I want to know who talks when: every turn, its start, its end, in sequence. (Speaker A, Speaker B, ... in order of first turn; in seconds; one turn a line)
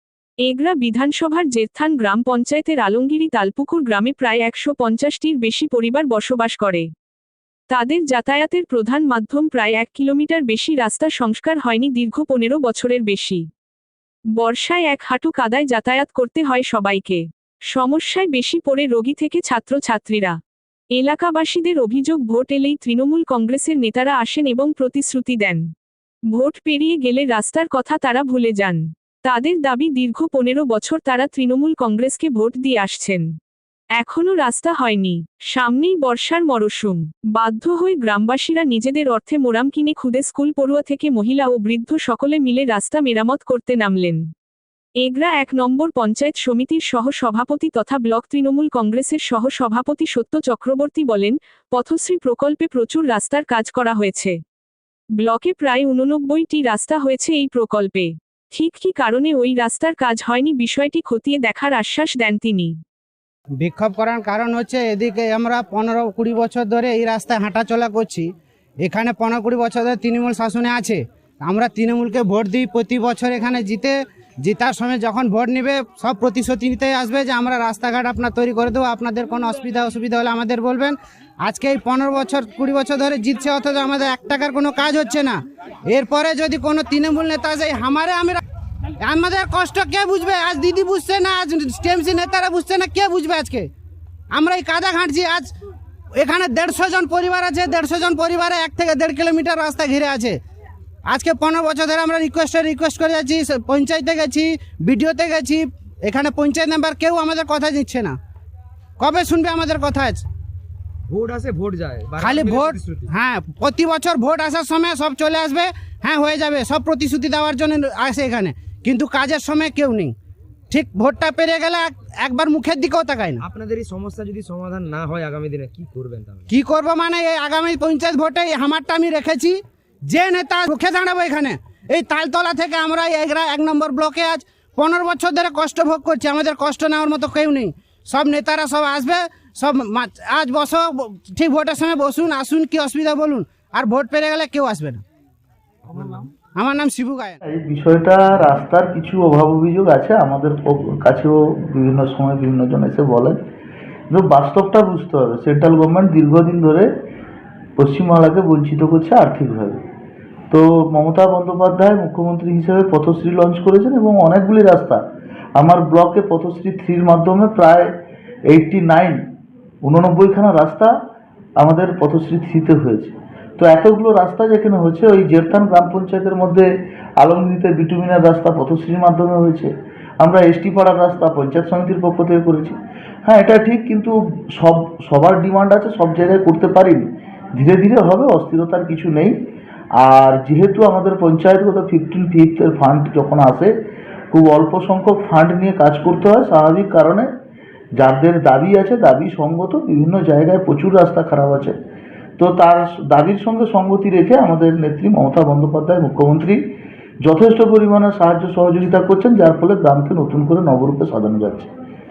Speaker A: 0.4-6.9
Speaker A: 7.7-13.4
Speaker A: 14.3-20.4
Speaker A: 20.9-25.6
Speaker A: 26.3-33.3
Speaker A: 34.0-44.2
Speaker A: 45.0-54.4
Speaker A: 55.2-62.7
Speaker B: 63.6-68.3
Speaker B: 68.8-88.4
Speaker B: 89.0-93.7
Speaker B: 94.3-95.5
Speaker B: 96.1-100.4
Speaker B: 101.1-108.2
Speaker B: 109.0-110.2
Speaker C: 111.1-113.1
Speaker B: 112.2-120.1
Speaker B: 120.7-123.4
Speaker C: 123.4-126.5
Speaker B: 126.5-145.0
Speaker C: 145.9-146.3
Speaker B: 146.5-147.4
Speaker D: 147.4-153.4
Speaker D: 154.1-156.9
Speaker D: 157.8-159.8
Speaker D: 160.5-165.0
Speaker D: 165.6-167.9
Speaker D: 168.5-169.2
Speaker D: 169.8-170.9
Speaker D: 171.6-176.7
Speaker D: 177.2-179.7
Speaker D: 180.2-187.0
Speaker D: 187.6-189.3
Speaker D: 190.0-193.7
Speaker D: 194.3-197.3
Speaker D: 198.0-201.8
Speaker D: 202.4-206.6
Speaker D: 207.2-211.7